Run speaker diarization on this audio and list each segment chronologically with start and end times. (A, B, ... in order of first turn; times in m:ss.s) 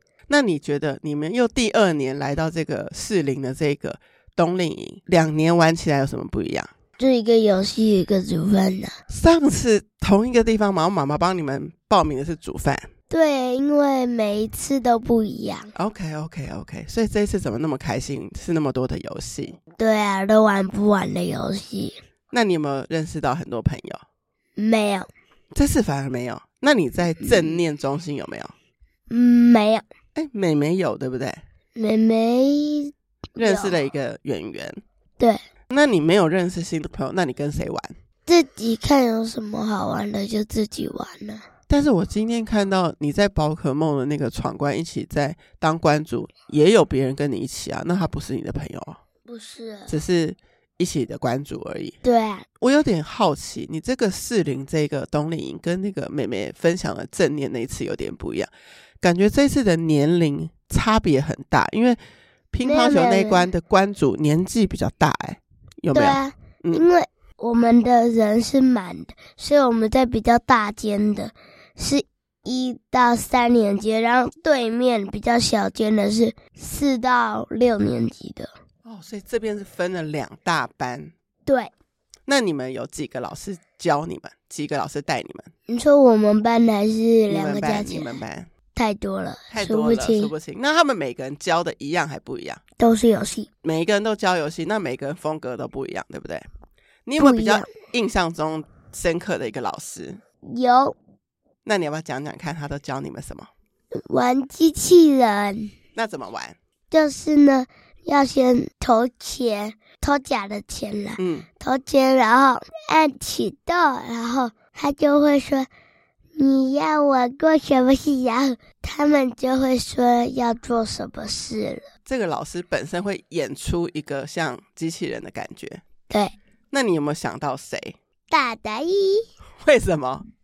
0:00.3-0:06.7 A
0:07.0-0:08.9 B
0:09.1-0:12.9 A
0:13.1-0:15.7 B
0:15.8-0:19.6 A
0:19.8-0:22.0 B
0:22.3-0:24.0 A
0:24.6-0:25.1 B
0:25.5-0:28.5 A
0:29.1-0:29.8 B
0:30.2-0:31.4 A
0:31.8-0:33.8 B
0:33.4-0:34.8 A
0:35.7-0:37.9 A
0:38.3-0:41.4 B
0:41.7-0:49.0 A
0:49.3-0:49.9 B
0:49.9-0:52.0 A
0:52.0-0:52.5 B
0:52.6-1:02.0 A
1:02.5-1:06.9 A
1:02.6-1:03.5 B
1:05.9-1:18.5 B
1:18.8-1:21.1 A
1:21.5-1:21.7 B
1:22.3-1:25.5 A
1:25.7-1:28.2 B
1:27.3-1:28.5 A
1:28.8-1:30.3 B
1:29.5-1:32.6 A
1:32.8-1:33.5 B
1:33.6-1:36.5 A
1:37.1-1:40.2 A
1:37.2-1:37.7 B
1:40.5-1:41.0 B
1:41.6-1:43.5 A
1:43.9-1:45.7 B
1:46.0-1:46.6 A
1:46.9-1:55.7 B
1:51.2-1:51.5 A
1:56.4-2:01.9 B
2:02.1-2:05.8 A
2:06.1-2:06.4 B
2:06.7-2:08.0 A
2:08.3-2:09.2 B
2:09.6-2:10.3 A